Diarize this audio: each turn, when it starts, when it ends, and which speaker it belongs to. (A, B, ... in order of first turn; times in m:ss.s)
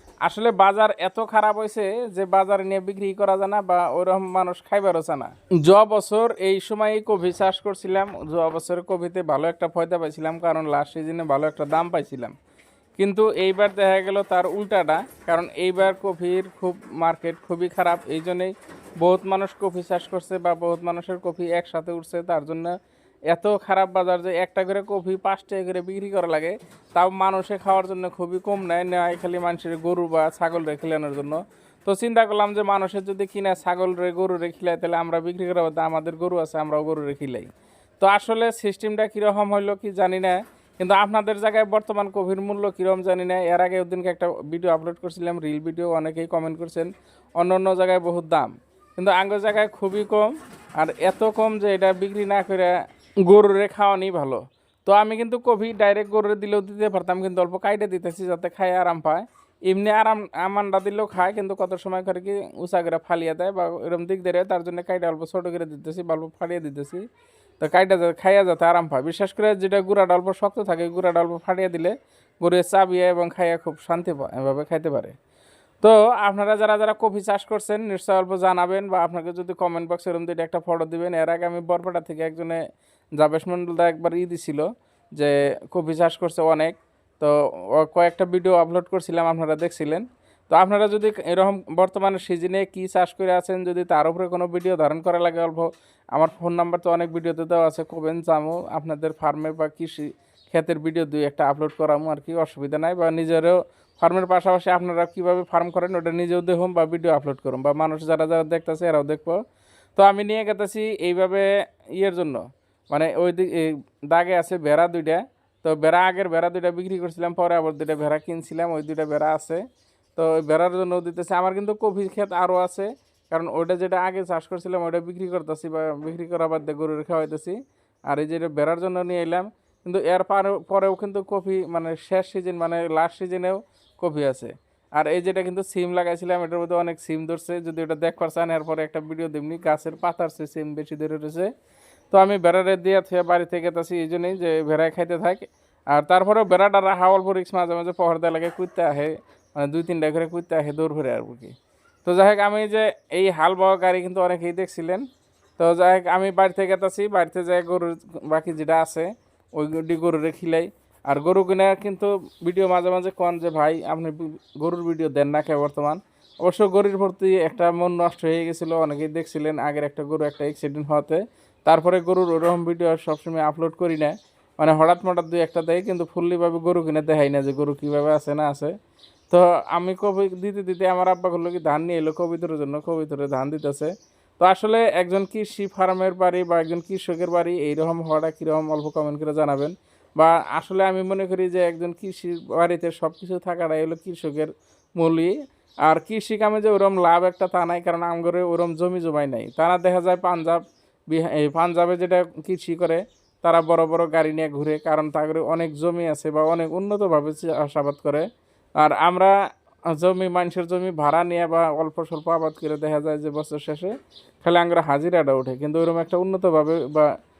0:00.2-0:12.3 A
0:13.0-0:22.7 A
0:23.3-0:37.5 A
0:38.0-1:07.0 A
1:07.6-1:15.1 A
1:15.8-1:22.6 A
1:23.2-1:24.6 A
1:25.2-1:49.4 A
1:50.0-1:59.6 A
2:00.2-2:07.6 A
2:08.1-2:21.5 A
2:22.1-2:31.5 A
2:32.0-2:35.0 A
2:35.6-2:58.7 A
2:59.3-3:15.3 A
3:15.8-3:28.3 A
3:28.8-3:29.3 A
3:29.9-3:37.1 A